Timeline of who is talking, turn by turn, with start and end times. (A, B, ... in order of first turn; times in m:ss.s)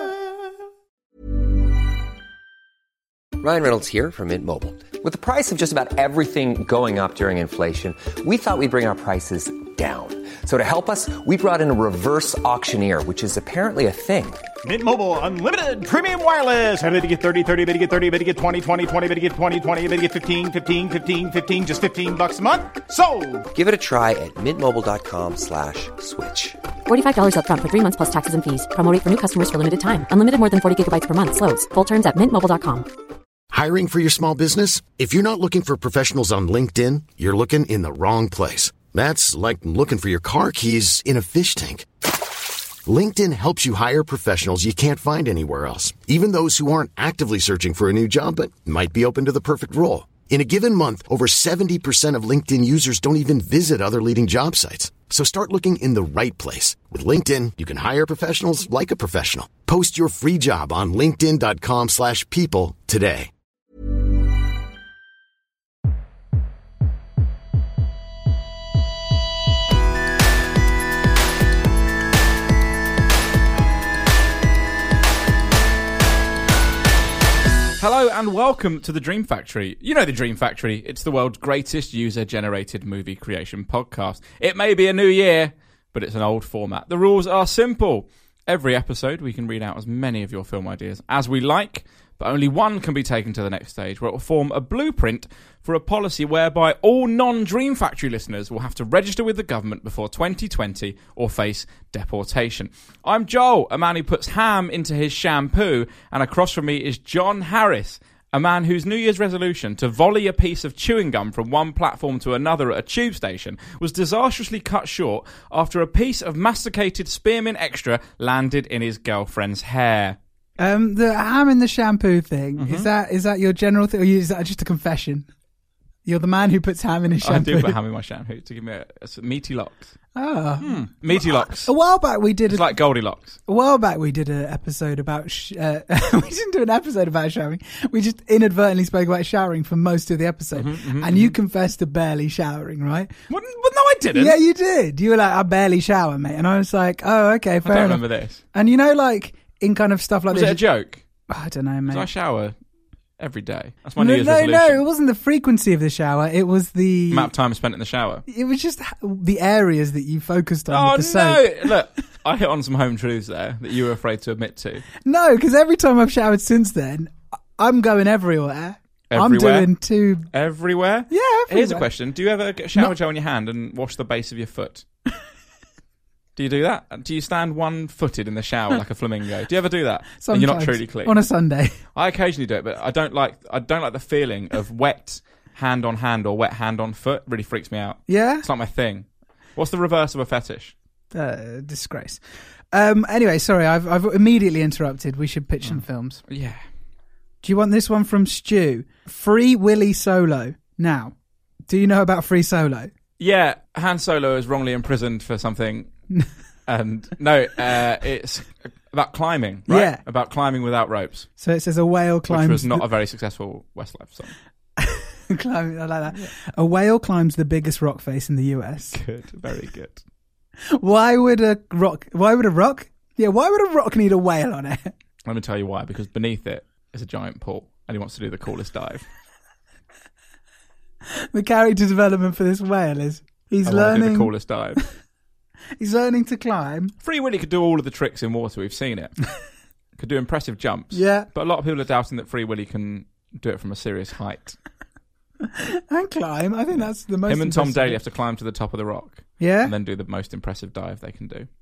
0:03.4-0:14.4 A
0:14.6-0:23.5 B
0:23.5-0:26.6 A
0:26.9-0:32.9 C
0:33.5-0:41.9 D
0:42.9-1:03.3 D
1:17.8-2:00.2 E
2:00.6-2:05.3 F
2:02.6-2:02.9 E
2:06.1-2:07.8 F
2:07.2-2:09.9 E
2:10.2-2:12.8 F
2:10.6-2:11.7 E
2:12.5-2:13.4 E
2:13.5-2:23.1 F
2:20.5-2:21.4 E
2:23.3-2:24.4 E
2:24.1-2:28.0 F
2:27.6-2:28.4 E
2:28.5-2:30.6 F
2:30.3-2:31.0 E
2:31.3-2:32.1 F
2:31.9-2:32.5 E
2:33.2-2:34.8 E
2:34.0-2:37.3 F
2:37.1-2:38.2 E
2:38.3-2:41.7 F
2:40.7-2:44.9 E
2:45.0-2:50.3 F
2:49.1-2:49.7 E
2:50.3-2:54.8 E
2:51.1-2:51.9 F
2:56.4-3:01.2 E
3:00.2-3:01.8 F
3:01.9-3:10.7 E
3:08.1-3:08.5 F
3:11.1-3:12.2 F
3:12.7-3:16.2 F
3:15.7-3:16.6 E
3:17.4-3:21.2 F
3:21.7-3:22.9 F
3:23.2-3:25.9 E
3:26.7-3:31.3 E
3:29.7-3:30.0 F
3:31.4-3:32.8 F
3:32.3-3:34.3 E
3:34.8-3:39.0 F
3:38.9-3:40.0 E
3:40.8-3:44.9 F
3:45.3-3:49.1 E
3:51.3-3:54.3 F
3:53.7-3:54.8 E
3:55.8-3:56.9 F
3:57.0-3:59.1 E
4:00.0-4:04.6 E
4:00.9-4:01.3 F
4:05.5-4:08.0 F
4:06.7-4:11.5 E
4:09.4-4:09.7 F